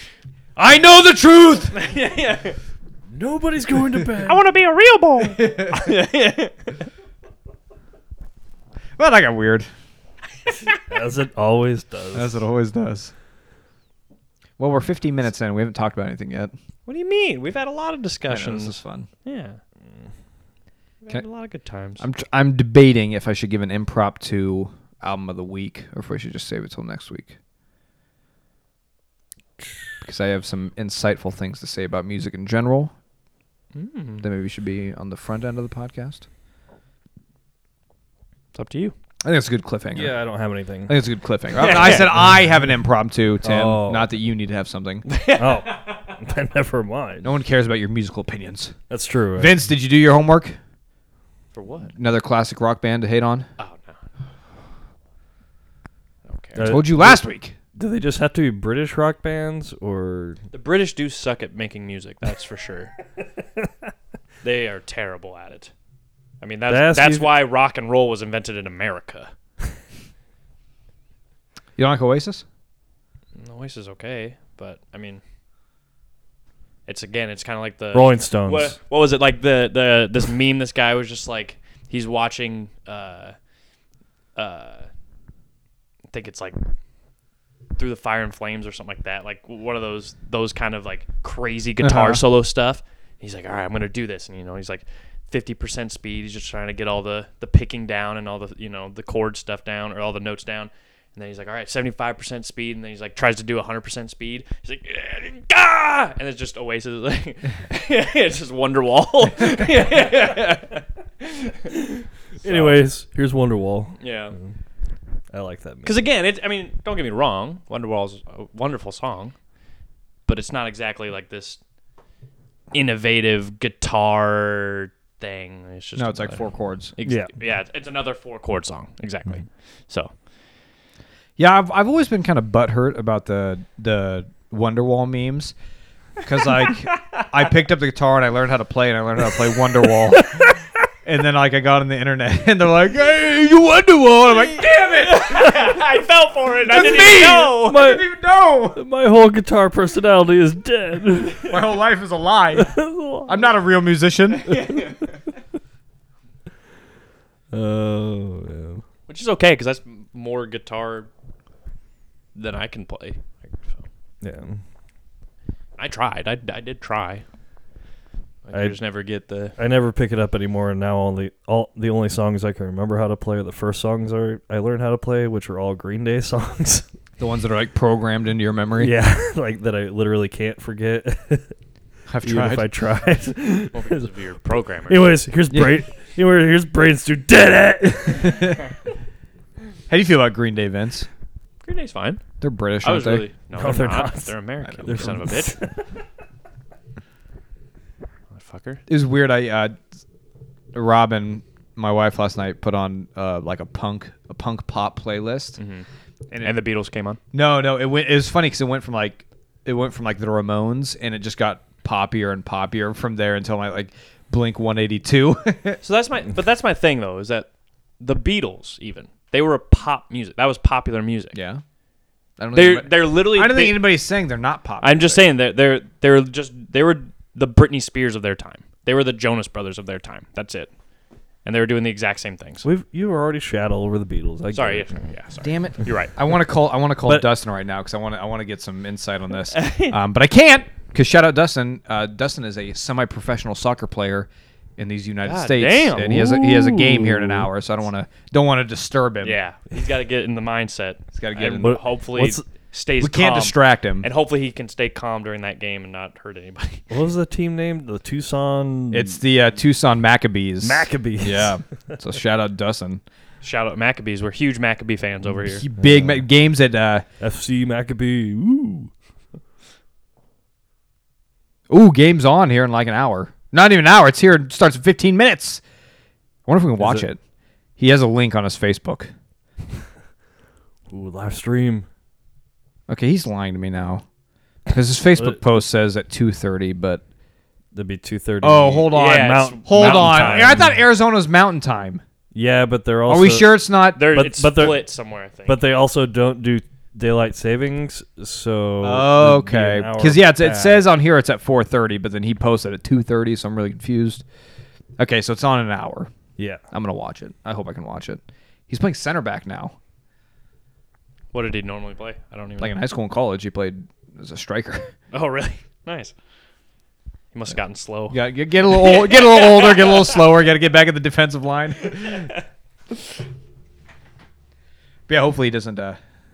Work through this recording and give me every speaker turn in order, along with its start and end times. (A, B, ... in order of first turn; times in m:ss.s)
0:00.6-0:01.8 A
0:01.7-0:02.6 B
0:03.1-0:04.4 C
0:04.2-0:06.8 B
0:05.3-0:05.9 A
0:09.0-0:09.7 A
0:10.8-0:12.4 C
0:12.1-0:13.1 A
0:14.6-0:16.5 A
0:16.8-0:19.6 B
0:18.3-0:19.1 A
0:21.0-0:22.0 B
0:22.0-0:27.4 A
0:30.0-0:32.9 A
0:33.7-0:34.2 B
0:34.2-0:36.2 A
0:38.5-0:38.9 B
0:39.2-0:40.3 A
0:39.9-0:41.0 C
0:40.9-0:45.1 A
0:41.5-0:42.1 B
0:43.4-0:44.1 C
0:45.1-0:45.6 B
0:45.3-0:47.3 C
0:47.2-0:48.8 A
0:48.9-0:49.5 C
0:49.4-0:50.6 A
0:51.5-0:51.9 B
0:52.0-0:53.5 A
0:53.6-0:54.0 B
0:56.2-0:56.8 B
0:56.6-1:00.4 C
0:56.6-0:57.5 A
1:00.5-1:02.9 B
1:04.4-1:05.7 B
1:06.4-1:09.3 B
1:06.7-1:07.3 C
1:11.8-1:12.4 A
1:13.4-1:15.2 B
1:16.8-1:23.3 B
1:17.9-1:18.8 C
1:24.4-1:24.9 B
1:26.1-1:26.6 B
1:27.8-1:52.8 B
1:31.8-1:32.2 A
1:52.4-1:54.5 C
1:54.0-1:54.3 B
1:55.3-1:56.0 C
1:55.8-1:59.3 B
2:00.2-2:01.6 B
2:02.7-2:10.1 B
2:06.0-2:06.9 A
2:07.0-2:07.3 C
2:11.4-2:15.5 A
2:16.2-2:20.5 A
2:17.0-2:17.2 B
2:20.2-2:20.5 C
2:21.0-2:25.8 A
2:24.6-2:27.8 B
2:26.7-2:28.8 A
2:27.6-2:28.0 C
2:28.7-2:31.5 C
2:31.4-2:34.6 A
2:32.5-2:33.4 C
2:34.5-2:35.1 B
2:37.5-2:38.8 C
2:39.1-2:41.1 B
2:42.3-2:43.9 B
2:44.2-2:44.6 C
2:45.8-2:47.2 B
2:48.4-2:49.5 B
2:48.5-2:48.8 C
2:49.6-2:56.9 C
2:57.2-2:58.9 A
2:58.8-3:01.5 C
3:02.1-3:02.7 A
3:02.2-3:04.1 C
3:03.7-3:05.0 B
3:04.9-3:08.6 C
3:05.5-3:05.8 A
3:08.2-3:08.6 A
3:09.9-3:11.1 A
3:11.6-3:12.2 B
3:12.4-3:13.3 A
3:12.8-3:15.6 B
3:13.5-3:15.8 C
3:18.3-3:18.8 B
3:18.9-3:19.8 A
3:20.7-3:25.6 A
3:25.6-3:25.8 B
3:26.4-3:27.2 B
3:27.3-3:35.8 A
3:35.8-3:37.5 B
3:38.0-3:41.4 B
3:41.3-3:41.6 A
3:42.4-3:45.2 A
3:42.5-3:43.8 B
3:44.8-3:50.7 B
3:51.4-3:52.7 B
3:52.6-3:55.0 C
3:54.5-3:56.1 B
3:55.4-4:09.4 A
3:57.0-3:57.3 C
3:59.5-4:00.0 B
4:05.2-4:06.2 B
4:06.0-4:07.5 C
4:09.2-4:16.9 B
4:11.1-4:11.8 A
4:11.6-4:12.4 C
4:13.0-4:14.1 A
4:16.9-4:19.2 C
4:18.9-4:23.0 A
4:20.6-4:21.6 C
4:23.4-4:25.6 B
4:25.4-4:27.0 A
4:25.8-4:26.2 C
4:27.2-4:28.9 C
4:31.7-4:35.6 A
4:36.5-4:37.2 A
4:36.8-4:37.0 C
4:37.8-4:39.1 A
4:40.9-4:41.9 C
4:42.9-4:44.0 A
4:44.7-4:47.0 A
4:47.7-4:50.8 C
4:48.4-4:52.0 A
4:48.9-4:50.6 B
4:52.3-4:53.5 C
4:53.1-4:54.1 A
4:53.9-4:55.6 B
4:54.0-4:54.8 C
4:55.5-5:00.8 C
4:58.8-5:04.2 A
5:05.0-5:06.1 A
5:06.7-5:09.7 A
5:11.3-5:12.8 B
5:12.6-5:14.9 A
5:15.1-5:16.1 B
5:17.3-5:20.2 B
5:18.1-5:22.4 A
5:21.8-5:22.4 B
5:25.1-5:26.0 A